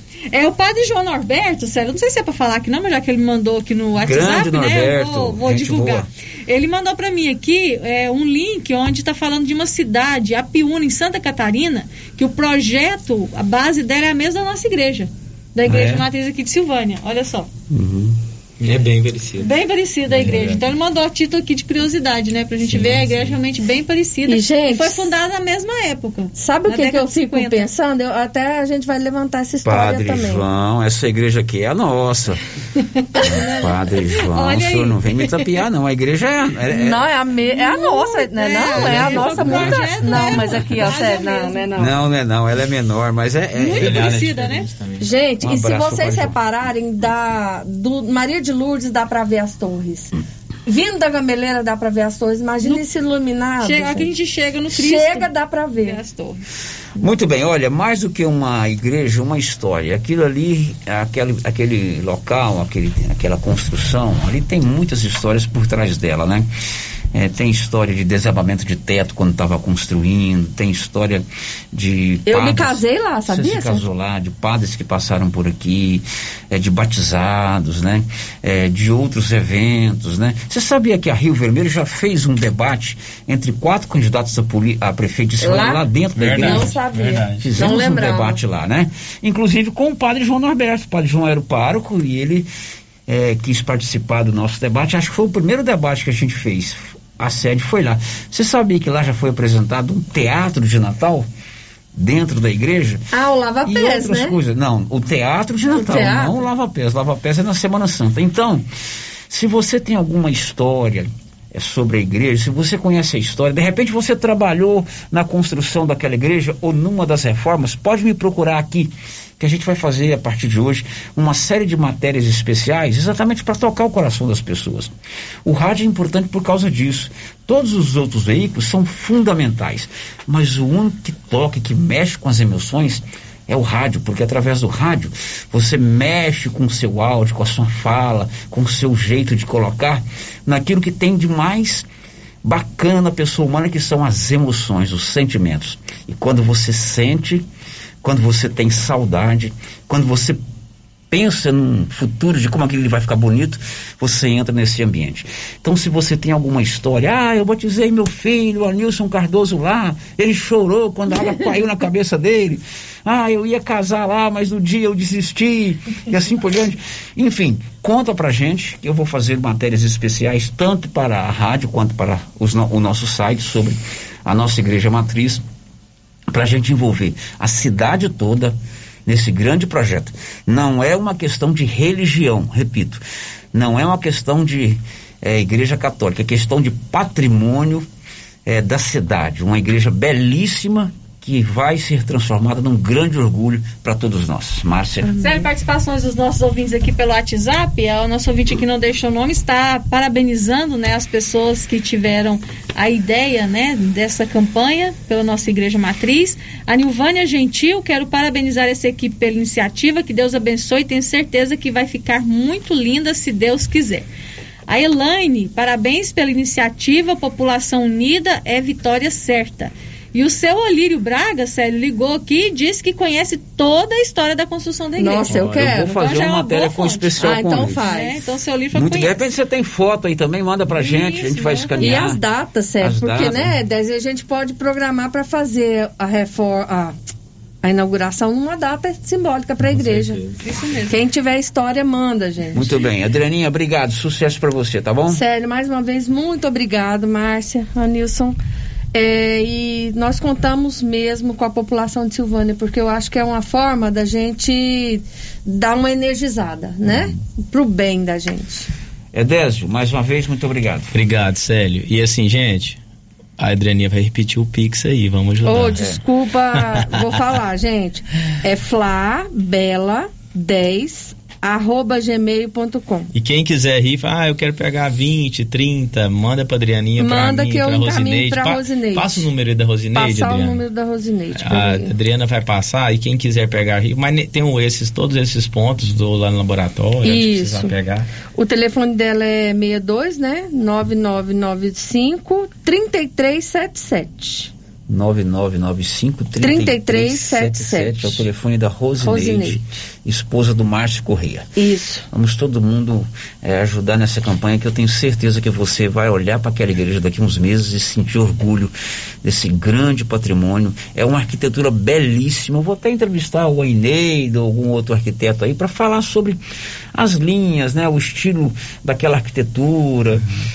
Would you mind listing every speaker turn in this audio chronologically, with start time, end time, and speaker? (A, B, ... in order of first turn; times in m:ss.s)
0:00.3-0:17.5 A
0:04.0-0:06.1 B
0:15.6-0:16.0 B
0:17.7-0:18.2 B
0:18.6-0:19.5 C
0:19.4-0:27.7 A
0:20.1-0:20.6 B
0:22.6-0:23.4 B
0:24.3-0:25.1 D
0:26.4-0:30.4 D
0:29.6-0:32.4 B
0:33.2-0:35.5 A
0:33.2-0:37.0 B
0:36.7-0:42.0 D
0:37.5-0:41.7 A
0:38.8-0:40.4 B
0:41.8-0:44.3 B
0:43.6-0:44.7 A
0:43.8-0:45.1 C
0:45.0-0:50.1 D
0:45.4-0:46.4 B
0:50.7-0:54.1 D
0:53.6-0:55.3 A
0:54.7-0:56.0 D
0:55.8-0:56.4 A
0:57.0-1:06.5 B
1:07.1-1:32.5 B
1:12.3-1:13.8 D
1:25.4-1:28.4 D
1:26.2-1:27.7 C
1:33.1-1:41.3 B
1:42.0-1:43.1 B
1:43.1-1:44.4 D
1:43.6-1:48.7 B
1:45.6-1:46.5 D
1:49.3-2:04.9 B
2:05.4-2:21.9 B
2:22.4-2:27.5 B
2:28.0-2:30.4 B
2:31.1-2:55.4 B
2:56.3-3:03.0 B
3:03.5-3:07.9 B
3:08.5-3:15.1 B
3:15.1-3:34.1 A
3:34.7-3:49.2 A
3:45.0-3:46.0 D
3:45.4-3:45.8 C
3:45.4-3:47.9 B
3:47.2-3:48.2 D
3:48.7-3:52.2 B
3:50.7-3:52.2 A
3:51.8-3:57.0 D
3:52.8-3:53.5 B
3:57.6-4:00.3 D
3:59.7-4:00.2 C
4:00.4-4:01.1 A
4:00.9-4:02.8 D
4:02.5-4:05.2 B
4:05.1-4:08.4 D
4:08.9-4:18.7 D
4:19.1-4:20.9 B
4:20.9-4:22.8 C
4:23.4-4:25.9 C
4:25.4-4:33.1 D
4:33.1-4:40.6 C
4:37.0-4:39.3 D
4:39.9-4:41.9 D
4:41.3-4:48.1 C
4:47.0-4:47.8 D
4:48.4-4:54.5 D
4:54.9-5:01.5 B
4:56.4-4:58.3 D
4:59.0-4:59.6 D
5:01.6-5:02.1 D
5:02.1-5:08.7 B
5:09.2-5:16.4 B
5:16.9-5:20.3 B